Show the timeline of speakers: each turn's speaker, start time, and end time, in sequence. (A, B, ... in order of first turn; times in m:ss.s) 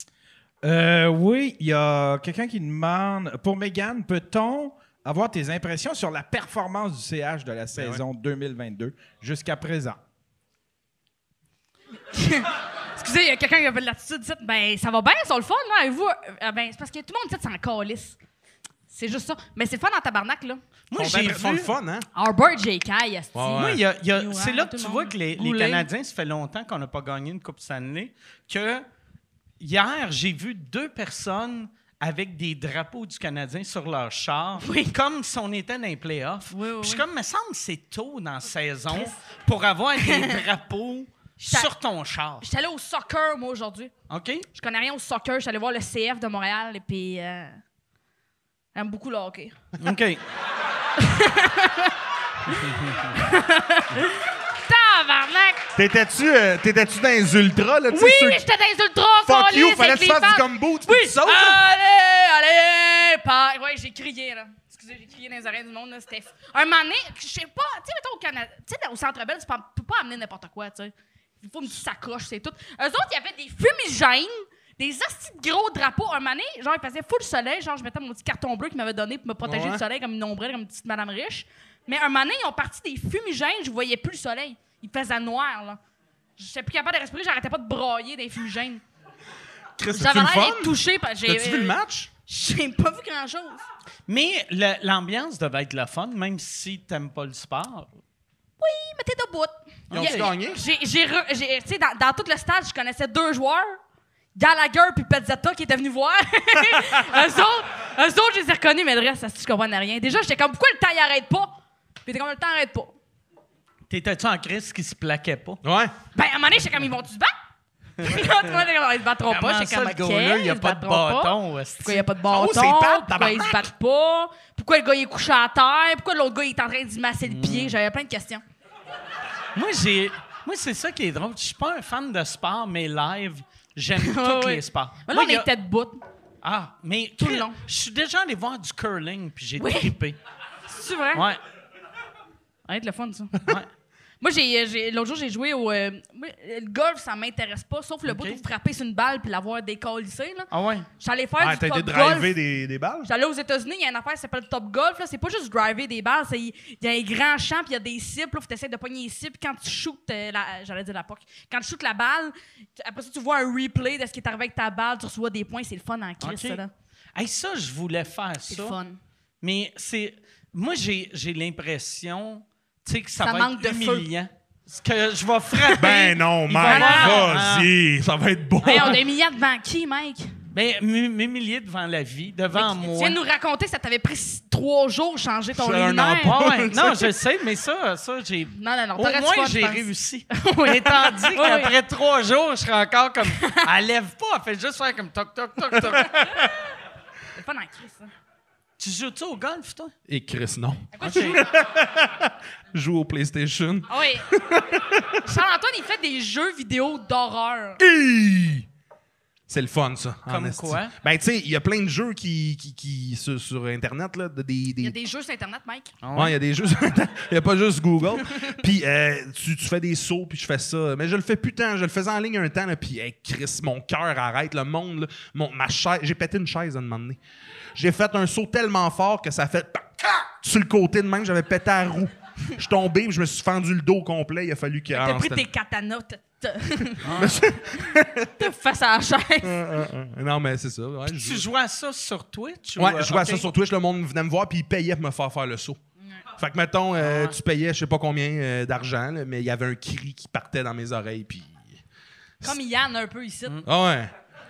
0:00.6-0:10.0 A
0:07.7-0:08.0 B
0:12.1-0:18.2 C
0:18.9-0:20.6 C
0:20.9-0:21.7 D
0:21.0-0:22.1 B
0:22.1-0:25.9 C
0:23.3-0:23.8 B
0:23.5-0:28.8 D
0:29.6-0:42.5 D
0:34.6-0:34.9 C
0:36.5-0:37.0 C
0:38.9-0:39.2 C
0:40.0-0:40.4 C
0:41.4-0:41.7 C
0:42.4-0:43.9 C
0:44.1-0:44.5 D
0:44.5-0:47.6 C
0:48.7-0:49.5 C
0:49.8-0:50.2 D
0:51.0-0:51.9 C
0:52.6-0:53.1 D
0:53.1-0:55.7 C
0:55.8-0:58.4 B
0:57.9-1:25.8 C
0:59.2-1:01.6 B
1:19.4-1:19.8 B
1:26.4-1:28.8 C
1:29.8-1:32.1 B
1:29.9-1:33.6 C
1:34.1-1:37.9 D
1:38.6-1:43.8 C
1:39.9-1:40.3 D
1:39.9-1:40.6 B
1:44.4-1:53.0 C
1:53.9-1:55.6 D
1:55.6-1:55.9 B
1:56.1-1:57.3 C
1:58.0-2:08.4 C
1:59.3-2:02.0 D
2:02.3-2:03.7 B
2:07.2-2:07.8 D
2:09.5-2:15.5 D
2:14.0-2:16.0 C
2:16.4-2:20.2 D
2:17.2-2:17.6 C
2:19.6-2:19.9 C
2:20.7-2:21.3 C
2:21.1-2:21.4 D
2:22.6-2:23.5 C
2:23.4-2:23.7 D
2:24.2-2:32.4 C
2:28.0-2:28.4 D
2:30.5-2:30.9 D
2:31.4-2:33.1 B
2:33.0-2:46.7 C
2:46.2-2:46.6 D
2:47.1-2:48.8 D
2:48.5-2:49.0 C
2:49.4-2:57.7 D
2:53.2-2:54.1 C
2:55.6-2:57.3 C
2:55.8-2:59.0 B
2:58.6-3:00.3 C
3:00.5-3:03.2 D
3:02.5-3:06.4 C
3:05.5-3:07.1 B
3:06.2-3:16.1 D
3:08.5-3:11.7 C
3:13.3-3:13.6 C
3:16.1-3:16.4 C
3:17.3-3:18.1 C
3:18.8-3:19.9 D
3:20.1-3:25.2 B
3:20.9-3:21.4 C
3:21.0-3:21.4 D
3:23.9-3:24.3 C
3:25.2-3:27.8 C
3:27.8-3:28.7 B
3:29.5-3:35.0 B
3:30.3-3:30.9 D
3:34.8-3:35.9 C
3:36.0-3:36.4 D
3:36.1-3:47.2 B
3:47.7-3:55.5 B
3:54.9-3:57.3 C
3:57.0-3:57.4 D
3:57.2-3:58.5 B
3:58.4-3:59.8 C
3:59.4-4:01.4 B
4:01.1-4:03.5 D
4:02.8-4:05.8 B
4:06.4-4:11.7 B
4:07.0-4:07.4 D
4:12.4-4:13.6 C
4:13.6-4:14.1 B